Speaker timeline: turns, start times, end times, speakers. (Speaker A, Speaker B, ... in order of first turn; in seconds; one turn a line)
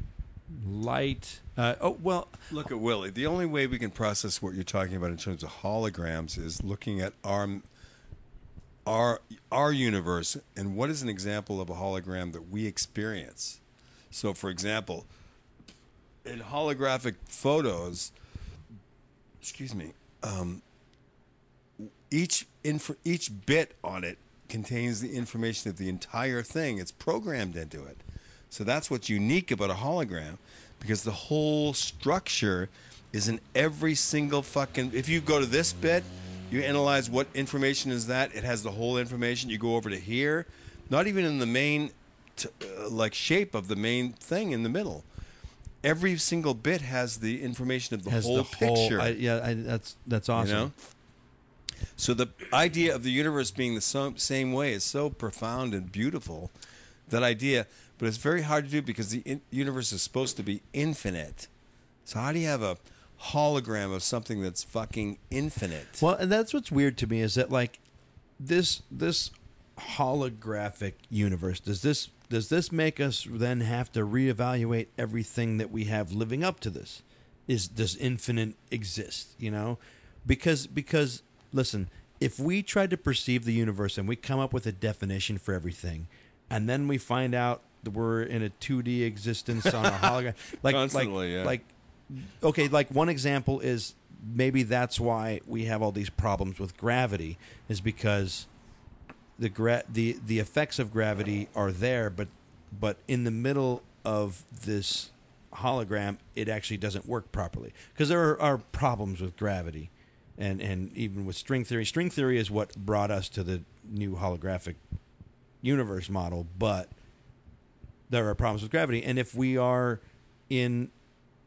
Speaker A: 0.5-2.4
Speaker B: 2.5-7.7
Speaker B: 8.8-15.1
Speaker B: 16.2-18.1
Speaker B: 19.4-20.6
Speaker B: 21.8-45.0
Speaker B: 45.8-49.2
Speaker A: 48.1-50.7
Speaker B: 50.3-50.7
Speaker B: 52.0-56.5
Speaker B: 57.1-61.5
Speaker B: 62.0-66.0
Speaker A: 66.0-67.8
Speaker A: 68.4-98.5
Speaker B: 89.6-89.9
Speaker B: 90.6-91.6
Speaker A: 99.4-114.8
Speaker A: 115.6-116.9
Speaker A: 118.1-120.9